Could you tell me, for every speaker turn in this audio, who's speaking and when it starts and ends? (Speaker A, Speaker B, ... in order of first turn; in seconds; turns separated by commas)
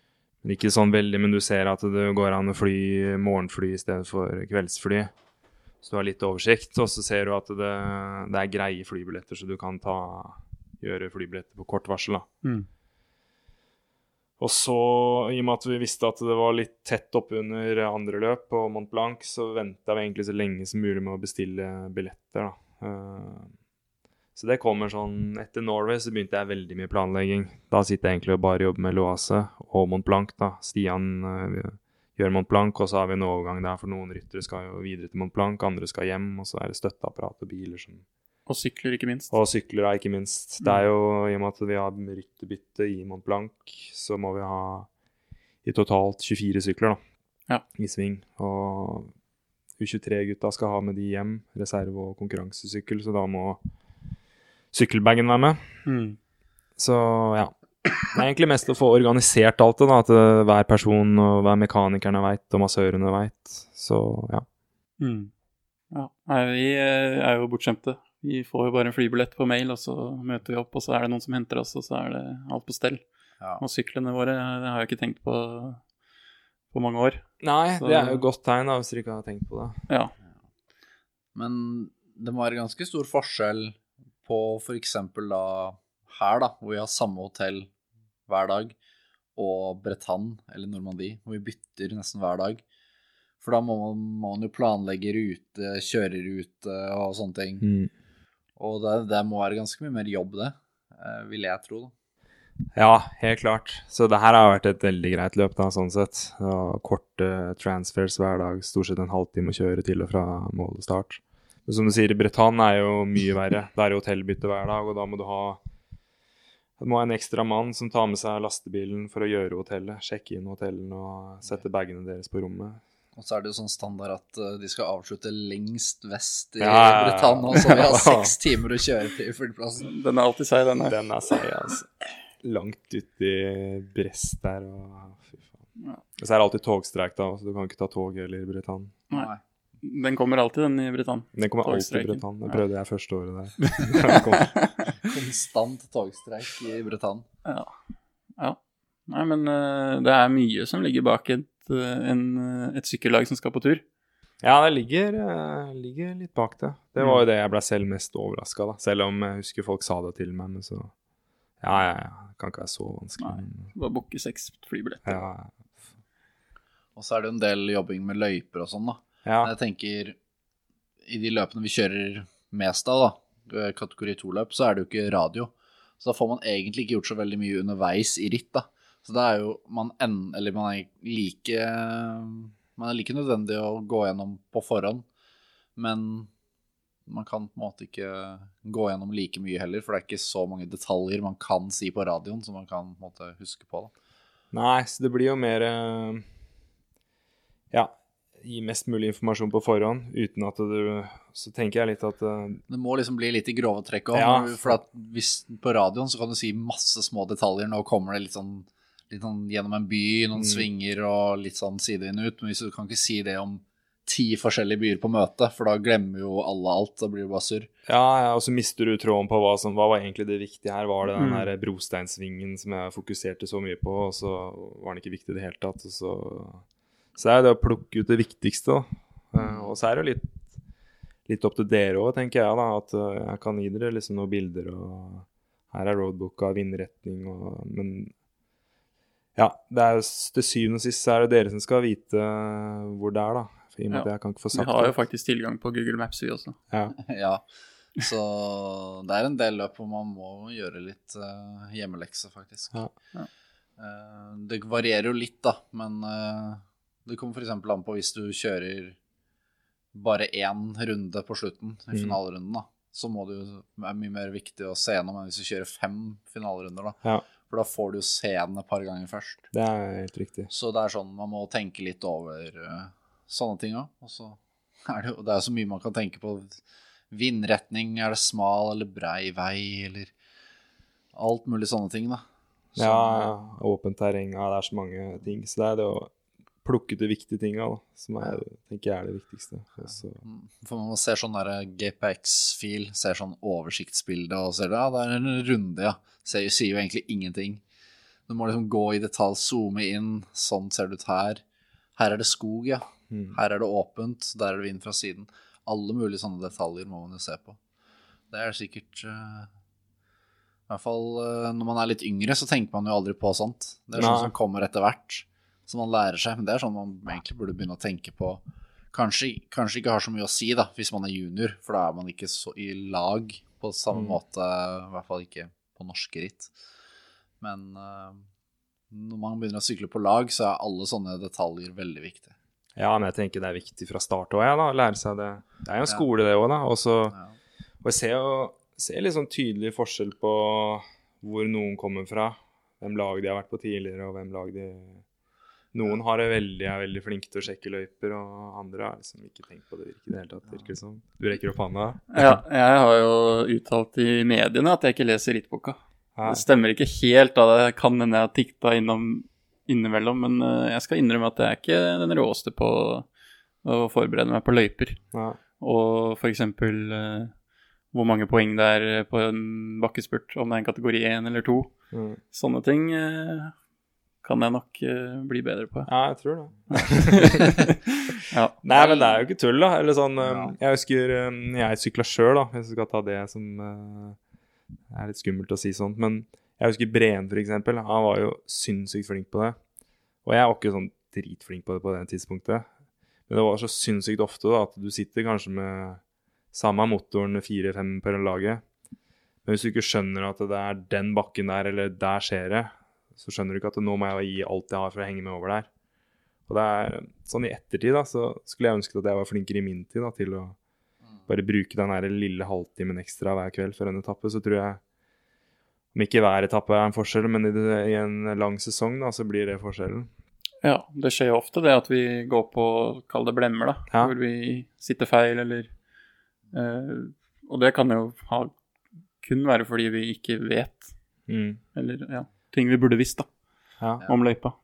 Speaker A: 0.4-5.1, Speaker A: 5.8-12.3, Speaker A: 14.4-23.5, Speaker A: 24.4-38.0, Speaker B: 38.5-39.3, Speaker A: 39.3-44.9, Speaker A: 45.6-47.0, Speaker A: 47.8-49.1, Speaker A: 49.8-53.6, Speaker A: 54.7-55.7, Speaker B: 55.9-56.2, Speaker A: 56.8-64.5, Speaker B: 65.0-65.3, Speaker B: 65.9-73.0, Speaker B: 73.6-75.8, Speaker B: 76.7-77.3, Speaker A: 77.4-79.8, Speaker B: 77.8-78.2, Speaker C: 81.3-87.7, Speaker C: 88.3-88.8, Speaker C: 89.4-92.6, Speaker C: 93.4-97.7, Speaker A: 97.6-97.9, Speaker C: 98.6-101.9, Speaker A: 102.8-115.6, Speaker A: 116.8-122.8, Speaker C: 123.2-129.9, Speaker A: 126.6-128.3, Speaker B: 129.8-131.0, Speaker A: 130.9-135.5, Speaker A: 136.2-139.0, Speaker C: 139.1-139.4, Speaker B: 139.8-142.6, Speaker A: 141.3-144.5, Speaker B: 143.7-144.9, Speaker C: 145.0-147.2, Speaker B: 147.4-147.7, Speaker B: 148.4-153.8, Speaker A: 154.4-160.9, Speaker A: 161.6-163.7, Speaker B: 163.2-165.3, Speaker A: 165.1-165.6, Speaker C: 167.0-170.2, Speaker A: 169.2-169.5, Speaker C: 171.1-185.1, Speaker C: 185.8-186.3, Speaker C: 187.1-193.9, Speaker A: 194.5-196.3, Speaker A: 197.7-202.6, Speaker C: 202.7-217.7, Speaker A: 204.1-204.8, Speaker A: 210.4-210.7, Speaker A: 217.9-226.6, Speaker B: 221.2-221.5, Speaker A: 227.2-230.4, Speaker C: 229.4-229.7, Speaker A: 231.3-238.1, Speaker A: 239.4-244.9, Speaker B: 243.9-246.6, Speaker C: 247.0-247.4, Speaker C: 248.0-252.8, Speaker C: 253.8-259.0, Speaker C: 259.9-269.5, Speaker A: 261.9-262.2, Speaker A: 269.5-270.5, Speaker C: 270.5-276.6, Speaker C: 277.1-280.1, Speaker C: 281.1-282.2, Speaker C: 282.7-283.3, Speaker A: 282.8-286.1, Speaker A: 286.6-290.2, Speaker C: 290.2-297.6, Speaker C: 298.3-301.4, Speaker C: 302.0-307.6, Speaker A: 303.1-303.4, Speaker C: 308.3-309.5, Speaker C: 310.7-326.5, Speaker A: 313.9-314.3, Speaker A: 323.9-324.2, Speaker C: 327.4-328.2, Speaker C: 328.9-332.3, Speaker A: 332.8-337.2, Speaker A: 337.8-345.0, Speaker A: 345.7-352.4, Speaker B: 352.1-363.1, Speaker A: 356.2-356.4, Speaker B: 363.6-365.0, Speaker A: 365.1-365.4, Speaker B: 365.6-367.4, Speaker B: 367.9-371.7, Speaker A: 371.9-372.2, Speaker B: 372.3-373.5, Speaker B: 374.2-375.9, Speaker A: 375.9-377.5, Speaker B: 376.7-379.1, Speaker A: 378.6-384.2, Speaker C: 380.2-380.5, Speaker A: 384.9-389.6, Speaker A: 390.2-392.7, Speaker A: 393.3-396.0, Speaker A: 396.5-398.6, Speaker A: 399.4-405.7, Speaker A: 406.5-410.6, Speaker A: 411.3-414.8, Speaker A: 415.9-420.1, Speaker B: 420.6-425.7, Speaker B: 426.5-428.5, Speaker B: 429.2-430.9, Speaker A: 431.3-431.6, Speaker B: 431.7-433.3, Speaker A: 433.8-434.1, Speaker B: 434.0-434.6